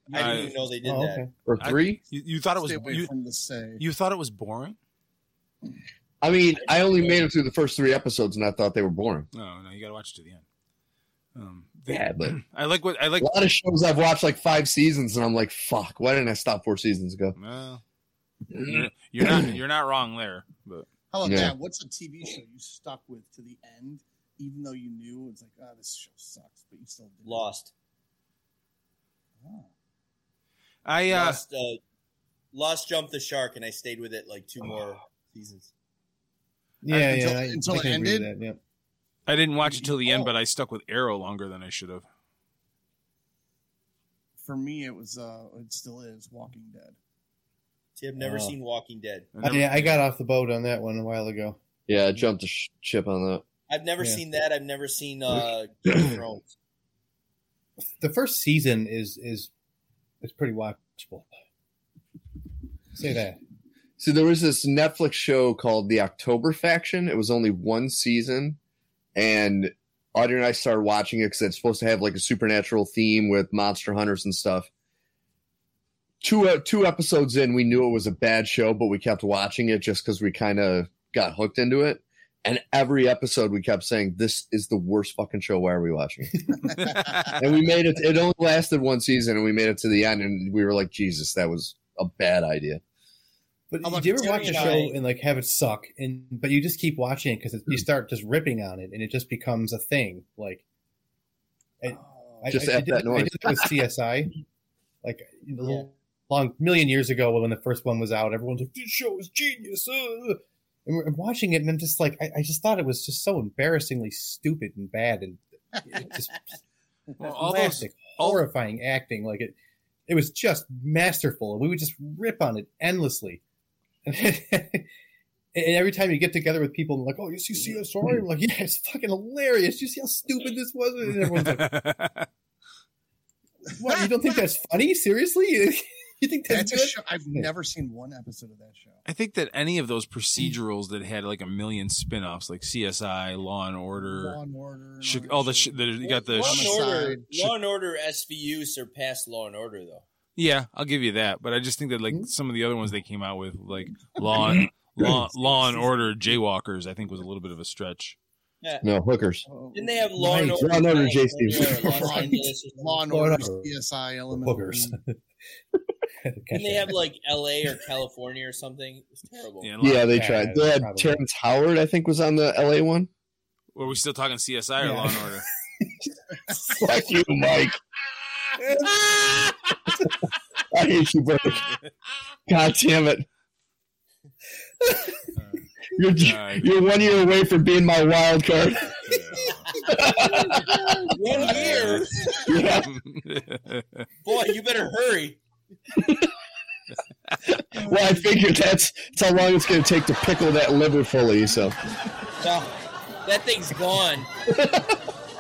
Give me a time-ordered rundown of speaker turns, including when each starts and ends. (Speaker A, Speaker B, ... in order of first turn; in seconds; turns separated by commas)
Speaker A: 0.1-1.2, Speaker B: 0.1-0.6, Speaker C: 0.2-0.5, Speaker D: 0.8-1.3, Speaker E: 1.5-2.0, Speaker B: 1.6-3.1, Speaker C: 2.6-3.8, Speaker B: 3.8-4.8, Speaker E: 6.2-9.3, Speaker B: 9.3-10.4, Speaker B: 11.3-13.3, Speaker E: 11.9-12.4, Speaker E: 13.2-17.4, Speaker B: 17.4-17.8, Speaker E: 18.5-19.4, Speaker B: 18.6-20.9, Speaker C: 21.1-27.5, Speaker E: 21.2-21.6, Speaker A: 27.2-27.7, Speaker C: 29.4-29.7, Speaker B: 30.9-31.4, Speaker A: 31.1-31.8, Speaker A: 32.5-35.7, Speaker D: 36.8-38.6, Speaker C: 36.9-38.3, Speaker B: 39.3-42.1, Speaker C: 39.7-40.2, Speaker C: 44.4-47.0, Speaker A: 48.0-49.3, Speaker D: 48.2-48.5, Speaker B: 49.4-50.0, Speaker D: 49.4-51.6, Speaker E: 51.9-53.4, Speaker A: 53.7-56.5, Speaker D: 58.0-59.5, Speaker D: 60.2-61.3, Speaker D: 62.9-63.4, Speaker E: 64.0-68.6, Speaker E: 69.2-74.7, Speaker E: 76.2-86.5, Speaker B: 86.8-87.4, Speaker E: 87.3-92.8, Speaker D: 93.7-100.6, Speaker C: 93.8-94.9, Speaker A: 94.2-95.0, Speaker D: 101.8-104.4, Speaker C: 101.9-102.5, Speaker E: 102.5-103.7, Speaker D: 105.0-116.5, Speaker B: 117.2-118.4, Speaker D: 117.2-119.6, Speaker D: 120.1-123.4, Speaker D: 124.1-124.9, Speaker D: 125.5-131.8, Speaker B: 131.1-132.3, Speaker D: 133.8-137.5, Speaker C: 133.8-134.1, Speaker C: 136.5-139.0, Speaker B: 139.1-144.4, Speaker C: 143.9-147.5, Speaker B: 145.0-146.8, Speaker A: 146.0-150.0, Speaker B: 150.4-158.2, Speaker C: 155.4-155.9, Speaker E: 158.8-159.5, Speaker C: 159.5-160.1, Speaker A: 159.7-163.0, Speaker D: 160.2-160.7, Speaker E: 160.6-162.0, Speaker C: 161.8-165.0, Speaker D: 162.0-162.3, Speaker D: 163.1-163.7, Speaker D: 164.3-165.2, Speaker D: 166.2-167.0, Speaker A: 166.5-169.7, Speaker B: 169.6-170.1, Speaker E: 169.8-173.1, Speaker D: 170.1-171.2, Speaker B: 173.7-175.5, Speaker D: 174.8-175.3, Speaker E: 176.7-177.8, Speaker E: 180.7-181.6, Speaker E: 182.5-183.3, Speaker B: 185.4-185.7, Speaker E: 185.9-189.0, Speaker B: 186.2-186.7, Speaker B: 189.1-189.7, Speaker E: 189.9-191.1, Speaker A: 191.1-192.4, Speaker B: 191.3-194.1, Speaker C: 191.6-192.0, Speaker E: 192.4-192.9, Speaker A: 194.2-195.4, Speaker E: 196.0-196.3, Speaker E: 197.6-201.8, Speaker C: 197.7-198.3, Speaker A: 202.4-202.7, Speaker A: 203.2-204.3, Speaker E: 204.5-204.8